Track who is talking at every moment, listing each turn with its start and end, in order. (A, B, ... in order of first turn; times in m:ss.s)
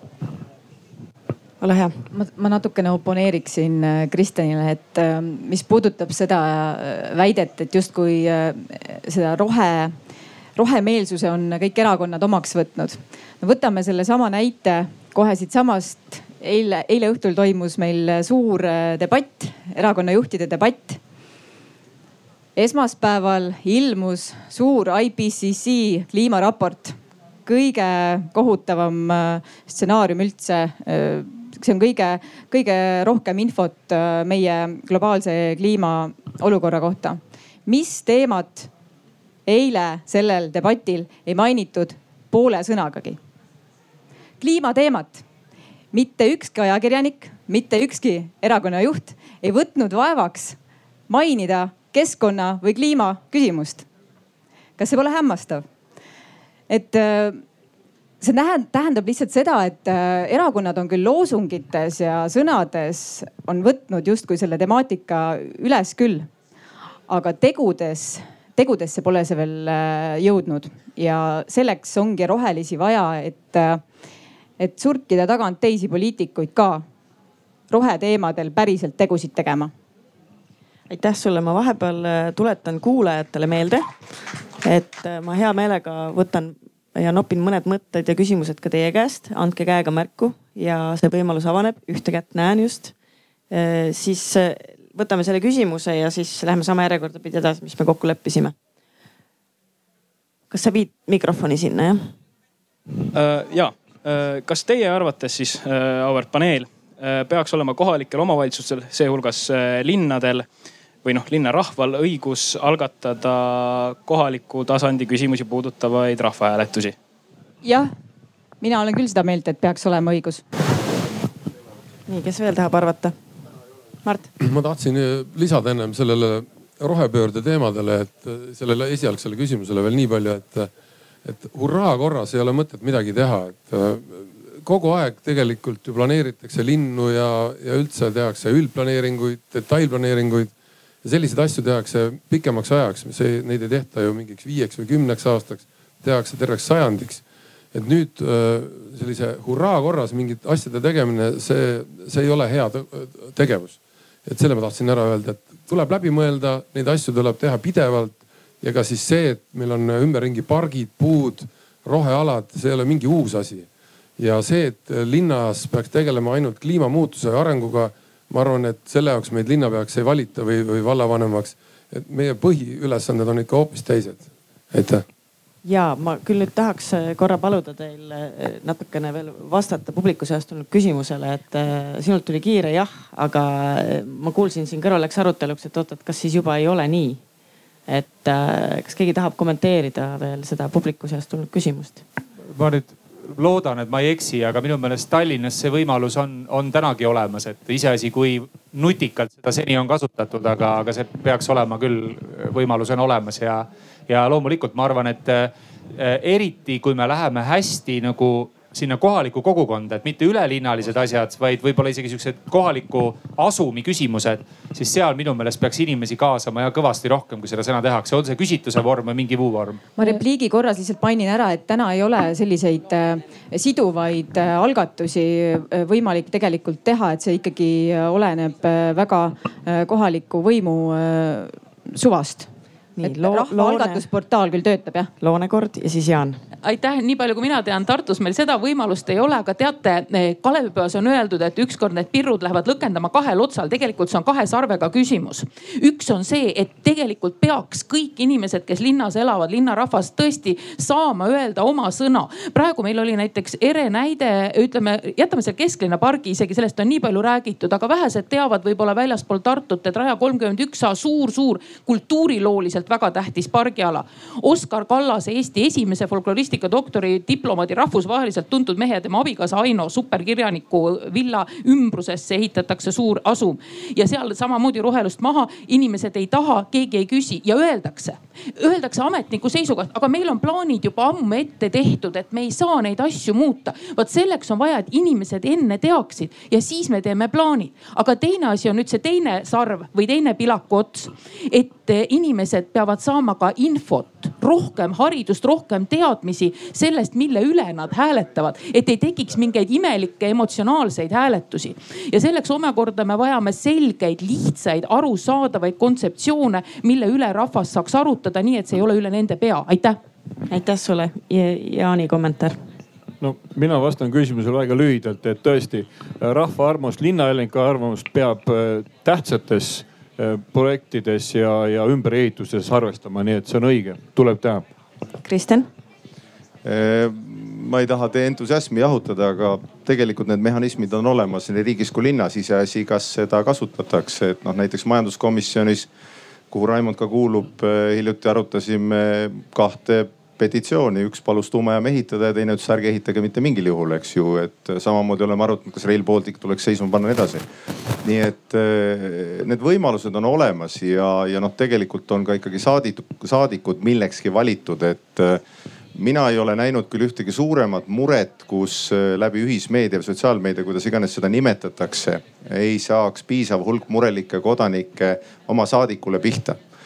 0:01.6-0:01.9 A
0:02.1-0:10.0 B
0:10.6-0:21.0 B
0:22.6-0:27.0 B
0:27.5-0:38.7 B
0:39.5-0:43.2 B
0:44.4-0:45.2 B
0:45.9-0:50.6 B
0:51.1-0:53.9 B
0:54.8-0:55.6 B
0:56.7-0:57.4 B
0:58.2-1:06.3 B
1:07.1-1:13.8 B
1:14.6-1:16.8 B
1:17.7-1:19.7 B
1:20.9-1:23.9 A
1:24.6-1:32.9 A
1:33.5-1:38.6 A
1:40.5-1:42.1 A
1:43.1-1:50.5 C
1:51.0-1:57.0 C
1:57.6-1:57.9 B
1:58.6-2:00.4 B
2:02.1-2:03.1 A
2:04.4-2:10.7 D
2:11.2-2:20.5 D
2:21.0-2:55.0 D
2:55.6-3:07.2 A
3:07.9-3:12.0 A
3:12.5-3:39.8 E
3:40.0-3:52.5 B
3:53.0-3:54.0 A
3:53.0-3:55.1 B
3:55.2-3:56.4 A
3:56.6-5:10.0 F
5:10.5-5:12.6 A
5:13.2-5:24.7 G
5:25.2-5:25.7 A
5:26.6-5:35.9 H
5:36.5-5:47.4 H
5:48.0-5:55.4 H
5:56.0-6:06.6 H